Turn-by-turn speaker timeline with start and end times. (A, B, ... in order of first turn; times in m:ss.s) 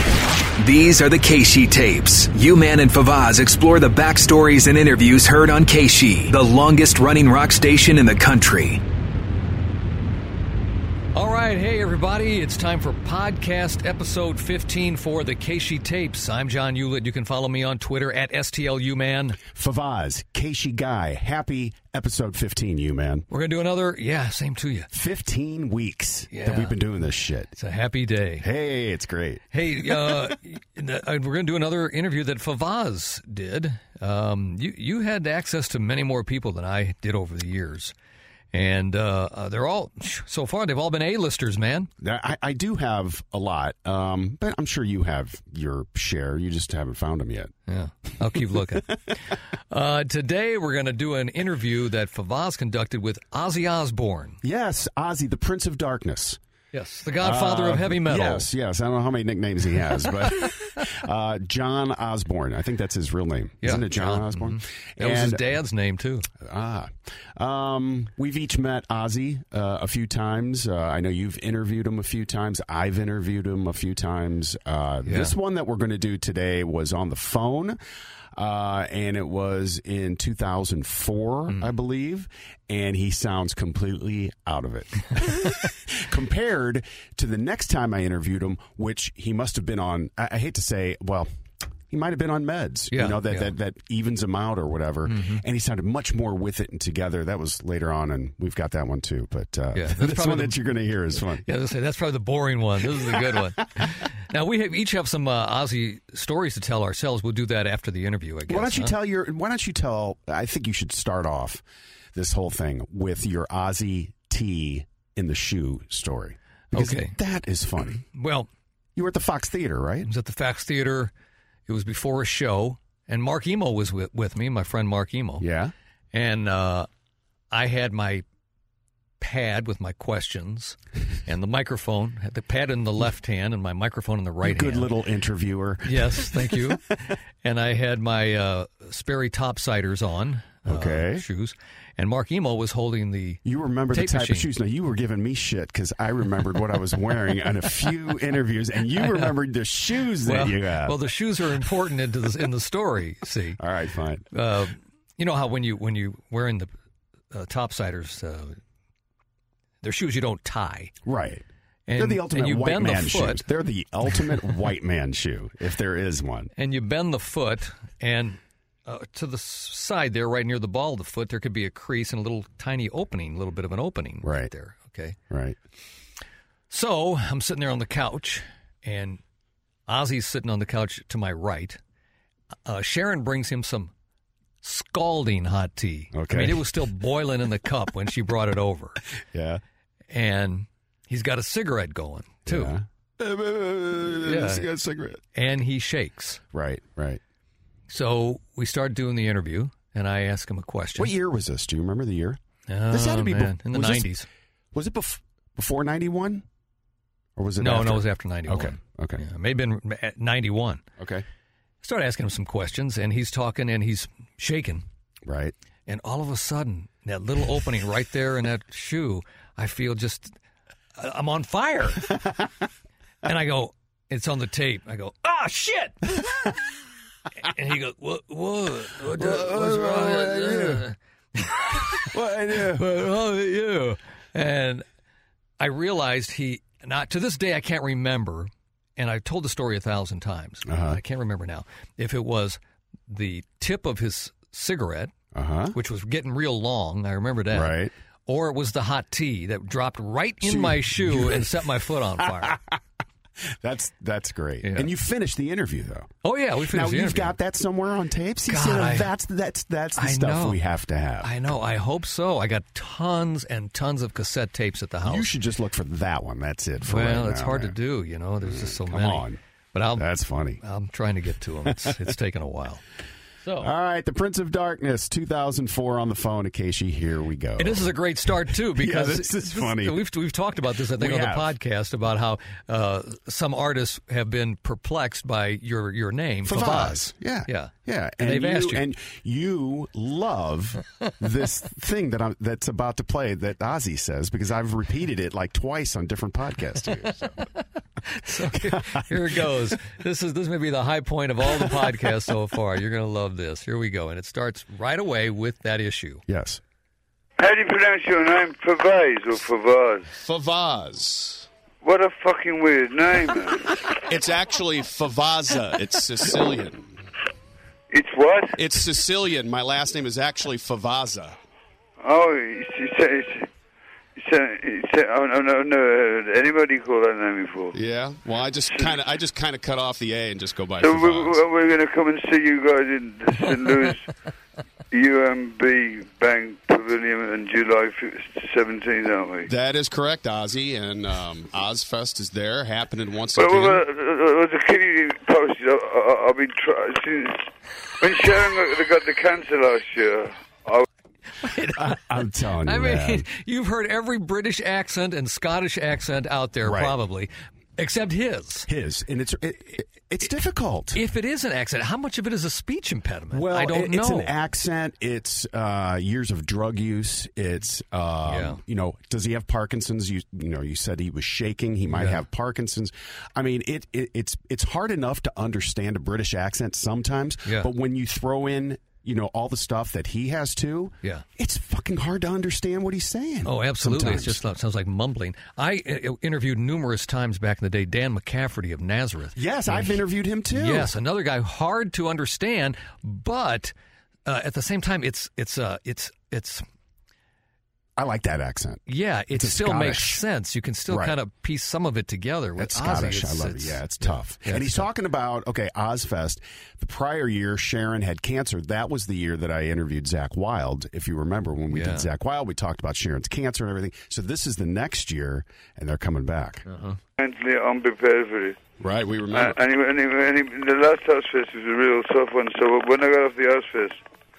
0:00.6-0:08.8 A
0:11.1-0:19.4 B
0:19.5-0:23.3 C
0:23.3-0:24.9 B
0:24.9-0:27.5 C
0:26.3-0:26.8 B
0:27.6-0:28.5 B
0:28.4-0:30.3 C
0:29.5-0:37.9 B
0:38.5-0:41.9 B
0:42.0-0:47.5 C
0:47.7-0:54.4 B
0:54.4-0:56.4 C
0:56.7-0:58.5 B
0:57.2-1:05.6 C
1:03.6-1:06.3 B
1:06.4-1:17.8 C
1:15.0-1:15.3 B
1:18.3-1:31.3 C
1:31.9-1:41.4 C
1:32.9-1:33.5 B
1:35.1-1:35.4 B
1:39.7-1:40.6 B
1:41.4-1:49.0 B
1:42.8-1:43.8 C
1:48.5-1:51.6 C
1:52.1-1:58.0 C
1:56.7-1:57.2 B
1:58.1-1:58.5 B
1:59.0-2:00.1 C
2:00.0-2:01.1 B
2:01.7-2:05.4 B
2:05.4-2:05.7 C
2:06.1-2:06.9 B
2:07.5-2:08.2 B
2:09.2-2:14.9 B
2:14.4-2:16.8 C
2:15.8-2:23.4 B
2:20.6-2:21.2 C
2:23.4-2:31.0 C
2:23.9-2:24.5 B
2:29.0-2:29.3 B
2:30.2-2:33.6 B
2:33.6-2:34.2 C
2:34.3-2:36.7 B
2:37.3-2:38.6 B
2:39.8-2:40.9 B
2:41.0-2:41.4 C
2:41.9-2:43.4 B
2:42.0-2:46.5 C
2:46.6-2:55.2 B
2:54.2-2:54.5 C
2:55.3-2:55.6 C
2:56.7-2:59.2 B
2:59.9-3:01.8 B
3:02.6-3:03.9 B
3:04.6-3:09.0 B
3:06.1-3:06.8 C
3:09.3-3:09.6 C
3:10.1-3:12.8 B
3:12.4-3:15.2 C
3:14.2-3:14.7 B
3:15.3-3:16.4 B
3:16.5-3:17.2 C
3:17.9-3:21.1 B
3:20.9-3:24.1 C
3:22.7-3:24.3 B
3:24.7-3:26.4 C
3:27.4-3:29.2 C
3:27.6-3:30.8 B
3:31.0-3:31.2 C
3:31.8-3:34.8 B
3:35.2-3:35.5 C
3:35.9-3:40.4 B
3:41.0-3:42.1 B
3:43.2-3:46.6 B
3:47.4-3:54.8 B
3:49.0-3:50.8 C
3:51.7-3:52.9 C
3:55.6-4:02.6 B
4:00.6-4:01.0 C
4:03.1-4:05.1 B
4:05.3-4:05.8 C
4:05.7-4:12.6 B
4:07.5-4:07.9 C
4:10.4-4:11.6 C
4:12.2-4:12.8 C
4:13.5-4:21.3 C
4:14.6-4:14.9 B
4:16.2-4:17.4 B
4:18.5-4:19.1 B
4:20.0-4:20.6 B
4:21.2-4:25.3 B
4:25.0-4:27.8 C
4:26.8-4:30.1 B
4:28.4-4:29.4 C
4:30.0-4:30.6 C
4:30.6-4:32.8 B
4:31.6-4:32.0 C
4:33.4-4:33.7 B
4:33.6-4:37.9 C
4:37.6-4:48.8 B
4:38.5-4:40.0 C
4:40.9-4:41.5 C
4:46.4-4:57.3 C
4:57.0-4:57.5 B
4:58.0-5:06.2 B
4:58.5-4:59.6 C
5:01.5-5:01.7 C
5:06.3-5:06.6 C
5:07.4-5:10.1 D
5:10.2-5:11.5 E
5:11.8-5:13.7 D
5:14.0-5:16.9 E
5:17.9-5:18.6 D
5:18.6-5:21.4 E
5:22.0-5:23.5 D
5:24.2-5:27.8 D
5:27.7-5:31.4 E
5:28.6-5:29.0 D
5:30.8-5:34.1 D
5:34.9-5:39.5 D
5:39.4-5:43.8 E
5:43.3-5:50.8 D
5:51.4-5:52.0 B
5:51.7-5:53.2 C
5:52.6-5:58.7 B
5:56.6-5:56.9 C
5:58.7-6:01.0 C
6:00.9-6:04.3 B
6:03.3-6:24.4 C
6:08.2-6:08.6 B
6:11.9-6:12.2 B
6:23.4-6:30.0 B
6:29.3-6:30.9 C
6:30.5-6:33.7 B
6:34.2-6:36.6 B
6:38.0-6:40.2 C
6:38.9-6:44.9 B
6:40.9-6:41.2 C
6:42.6-6:56.6 C
6:51.7-6:52.1 B
6:56.7-6:57.0 B
6:57.2-6:58.6 D
6:58.8-6:59.6 E
6:59.3-7:04.0 D